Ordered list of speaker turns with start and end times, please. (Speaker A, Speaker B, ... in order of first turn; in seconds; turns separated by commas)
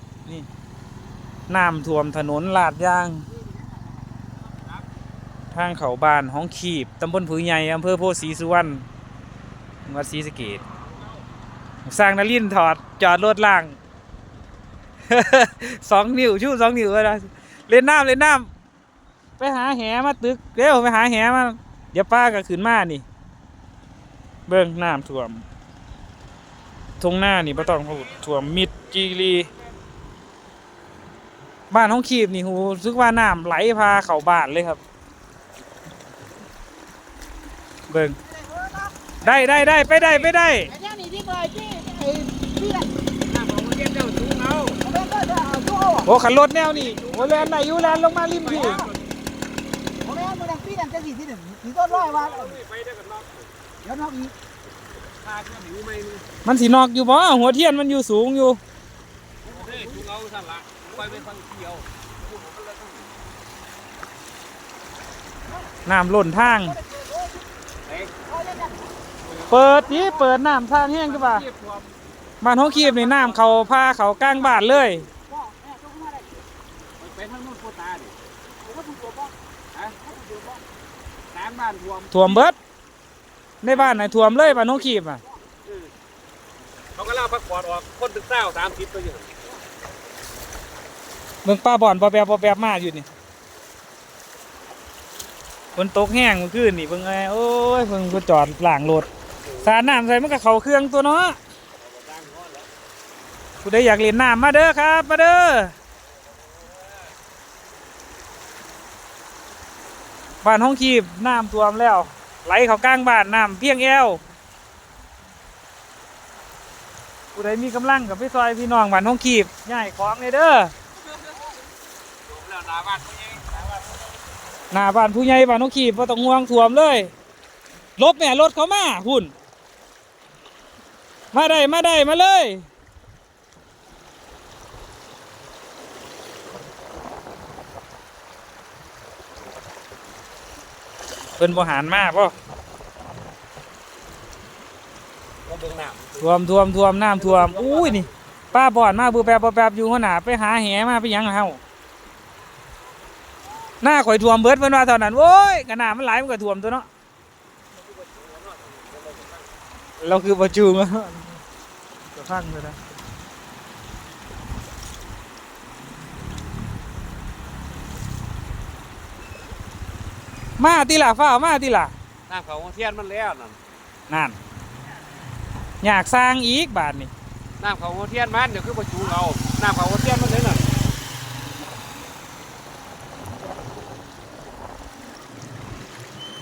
Speaker A: 1.5-3.2, Speaker A: 5.5-8.8, Speaker A: 9.9-10.6, Speaker A: 11.8-13.8, Speaker A: 15.1-18.5, Speaker A: 19.4-23.0, Speaker A: 24.5-25.4, Speaker A: 27.0-29.5, Speaker B: 27.6-29.6, Speaker A: 31.7-34.8, Speaker A: 37.9-38.2, Speaker A: 39.2-40.8, Speaker C: 40.8-43.0, Speaker B: 43.2-44.9, Speaker C: 44.9-46.0, Speaker A: 46.0-48.9, Speaker B: 46.7-49.0, Speaker C: 50.0-52.5, Speaker B: 51.8-53.5, Speaker C: 53.9-54.3, Speaker B: 55.1-56.2, Speaker A: 56.4-58.6, Speaker B: 59.4-63.1, Speaker A: 65.9-66.8, Speaker B: 67.9-68.1, Speaker C: 68.4-68.7, Speaker A: 69.5-71.4, Speaker B: 71.1-71.9, Speaker A: 72.4-75.1, Speaker B: 72.8-73.7, Speaker C: 75.6-76.1, Speaker B: 77.0-78.1, Speaker C: 78.9-79.1, Speaker B: 79.7-80.4, Speaker B: 81.3-82.5, Speaker A: 82.1-82.5, Speaker A: 83.6-85.2, Speaker B: 83.6-85.0, Speaker B: 85.6-85.9, Speaker B: 86.9-89.4, Speaker A: 91.4-93.1, Speaker A: 95.8-99.1, Speaker A: 99.6-101.4, Speaker B: 101.8-102.7, Speaker A: 103.6-105.7, Speaker B: 106.6-106.9, Speaker A: 110.4-114.2, Speaker A: 117.3-120.7, Speaker B: 122.2-123.7, Speaker A: 124.7-127.1, Speaker A: 128.0-129.3, Speaker A: 131.3-132.7, Speaker A: 141.4-142.3, Speaker B: 145.4-146.3, Speaker A: 146.2-151.6, Speaker B: 147.2-148.1, Speaker A: 153.8-156.9, Speaker B: 157.8-159.5, Speaker A: 160.0-161.4, Speaker A: 162.1-162.8, Speaker A: 170.6-171.9, Speaker B: 172.3-173.6, Speaker A: 174.1-174.4, Speaker A: 175.8-177.1, Speaker B: 177.6-180.6